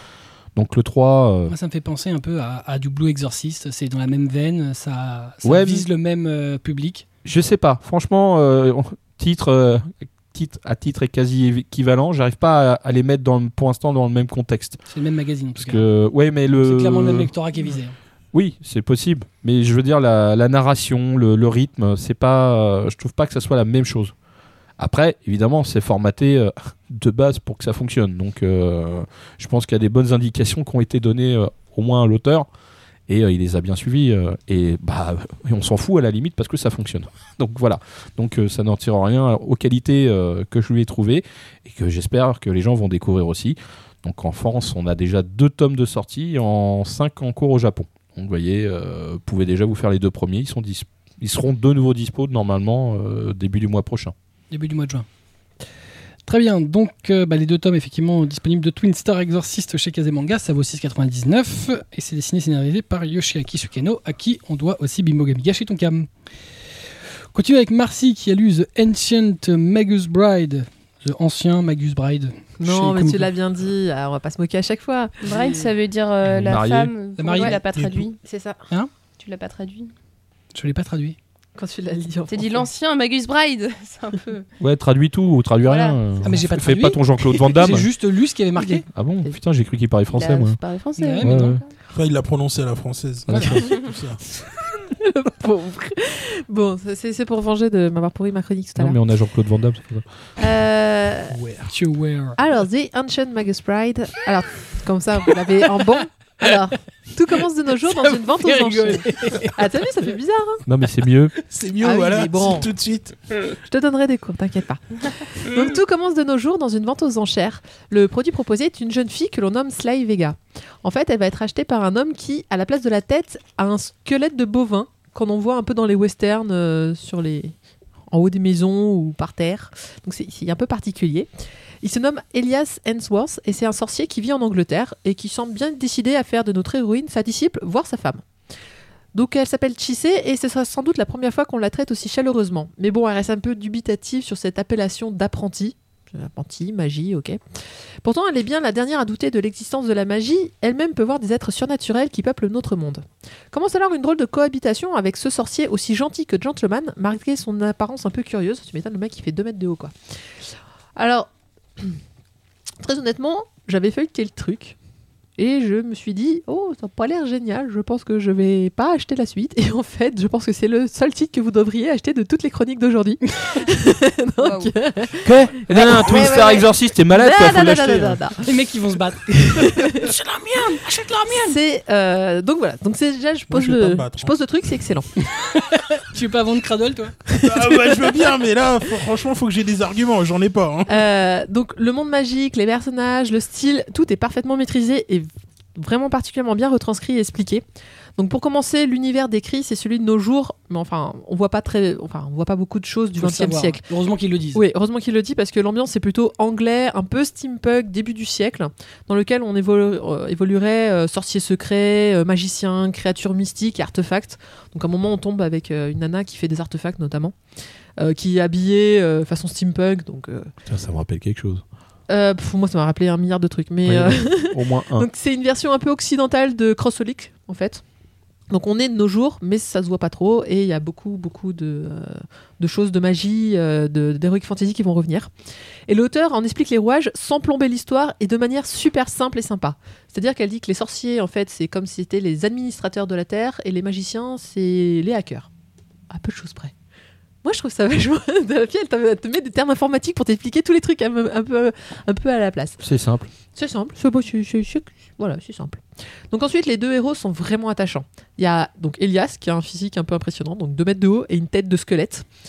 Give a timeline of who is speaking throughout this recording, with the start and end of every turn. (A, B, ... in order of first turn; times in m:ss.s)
0:00.6-0:01.5 A
0:01.5-0:07.0 B
0:05.4-0:05.8 A
0:07.2-0:14.8 A
0:14.9-0:15.9 B
0:15.6-0:17.3 A
0:16.5-0:18.0 B
0:18.3-0:24.1 A
0:24.8-0:32.5 A
0:33.1-0:54.1 A
0:54.5-0:55.0 B
0:56.2-1:06.1 B
1:07.3-1:13.3 B
1:12.6-1:15.7 C
1:15.2-1:18.2 D
1:16.3-1:16.9 A
1:17.2-1:17.6 B
1:17.8-1:18.0 E
1:18.2-1:18.6 C
1:19.2-1:19.9 D
1:20.5-1:21.2 B
1:21.6-1:22.7 C
1:22.3-1:24.5 D
1:24.6-1:27.9 A
1:25.6-1:26.0 D
1:26.2-1:28.8 B
1:28.9-1:30.6 A
1:30.1-1:31.7 D
1:31.0-1:31.6 B
1:31.2-1:31.6 A
1:31.9-1:34.2 E
1:33.3-1:33.7 A
1:34.9-1:39.0 C
1:38.8-1:40.0 A
1:40.4-1:41.4 C
1:41.5-1:42.4 B
1:42.4-1:50.6 C
1:47.8-1:49.6 B
1:50.6-1:51.3 A
1:51.5-1:53.1 E
1:51.8-1:52.7 C
1:53.6-2:07.5 C
2:08.1-2:11.3 C
2:11.8-2:18.2 C
2:19.1-2:27.4 C
2:28.0-2:39.9 C
2:41.0-2:42.0 C
2:42.8-2:44.8 C
2:45.4-2:58.5 C
2:54.4-2:54.7 D
2:55.2-2:58.2 A
2:58.4-3:01.6 B
2:59.2-3:00.1 C
3:01.3-3:05.1 C
3:03.5-3:04.3 E
3:05.2-3:07.2 B
3:07.3-3:08.2 C
3:07.4-3:10.9 E
3:10.9-3:17.6 C
3:18.2-3:23.8 C
3:23.2-3:24.6 B
3:24.5-3:37.4 C
3:38.0-3:40.5 C
3:40.7-3:41.6 A
3:42.1-3:47.8 C
3:43.8-3:45.1 A
3:48.5-3:55.3 C
3:55.9-4:05.5 C
4:06.1-4:06.7 C
4:07.4-4:12.8 C
4:12.8-4:13.3 A
4:13.5-4:22.3 C